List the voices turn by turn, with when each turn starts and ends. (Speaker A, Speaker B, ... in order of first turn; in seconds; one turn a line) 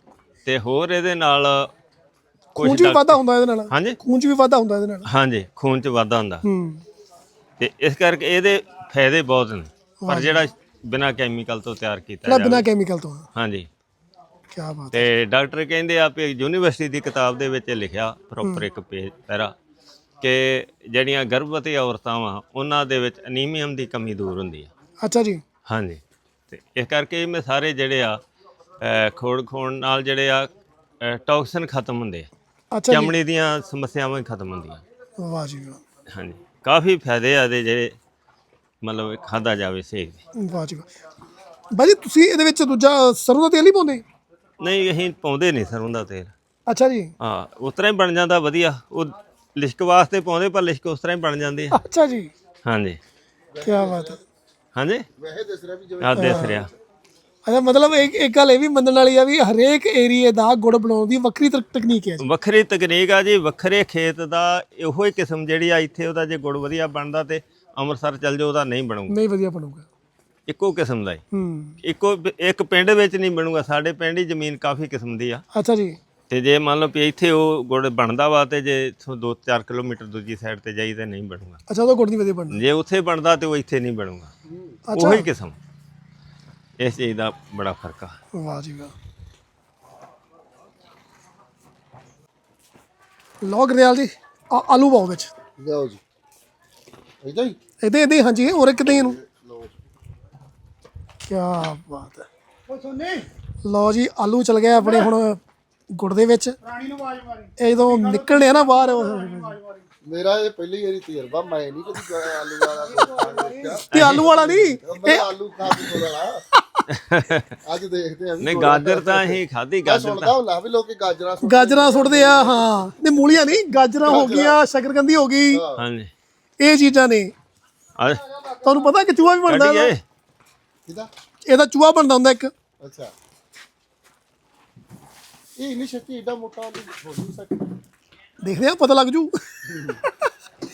Speaker A: 0.5-1.7
Speaker B: 2.6-5.1
Speaker A: 2.6-4.0
Speaker A: 5.0-6.5
Speaker B: 6.4-6.8
Speaker A: 7.6-12.7
Speaker B: 10.0-10.4
Speaker B: 12.3-13.3
Speaker A: 13.3-13.7
Speaker B: 14.5-15.1
Speaker A: 14.9-19.5
Speaker A: 20.2-24.7
Speaker B: 25.0-25.4
Speaker A: 25.7-28.2
Speaker A: 28.8-30.5
Speaker A: 31.0-32.3
Speaker B: 32.7-33.1
Speaker A: 32.9-34.8
Speaker B: 35.2-35.8
Speaker A: 36.1-38.0
Speaker A: 38.8-40.2
Speaker B: 40.4-40.9
Speaker B: 41.7-44.0
Speaker A: 44.6-46.3
Speaker B: 46.7-47.1
Speaker A: 47.2-51.8
Speaker B: 51.7-52.3
Speaker A: 52.6-53.0
Speaker C: 53.5-54.2
Speaker B: 53.6-54.2
Speaker A: 54.8-55.1
Speaker C: 55.2-56.6
Speaker A: 56.0-56.7
Speaker B: 56.2-56.6
Speaker B: 57.5-62.3
Speaker A: 62.2-69.2
Speaker B: 69.1-69.9
Speaker A: 70.5-71.2
Speaker B: 71.3-71.8
Speaker A: 71.8-75.4
Speaker B: 75.5-76.0
Speaker A: 76.3-81.6
Speaker B: 81.7-82.6
Speaker A: 82.5-84.3
Speaker B: 84.9-85.3
Speaker A: 84.9-85.6
Speaker A: 86.8-88.2
Speaker B: 88.3-88.9
Speaker B: 93.4-95.3
Speaker C: 95.6-96.0
Speaker C: 97.2-97.6
Speaker B: 97.8-99.2
Speaker C: 98.9-99.7
Speaker B: 101.3-102.3
Speaker B: 103.6-105.4
Speaker B: 105.9-106.6
Speaker B: 107.6-109.6
Speaker C: 110.0-116.4
Speaker B: 113.9-116.8
Speaker A: 113.9-114.3
Speaker A: 116.9-117.6
Speaker C: 117.7-122.8
Speaker A: 118.4-120.4
Speaker B: 121.4-125.7
Speaker C: 124.1-124.6
Speaker C: 125.5-125.8
Speaker A: 125.8-126.1
Speaker B: 126.6-127.3
Speaker A: 128.0-128.4
Speaker B: 128.6-129.9
Speaker A: 129.5-130.0
Speaker B: 131.5-132.5
Speaker C: 132.8-133.1
Speaker C: 135.6-137.8
Speaker B: 138.4-140.3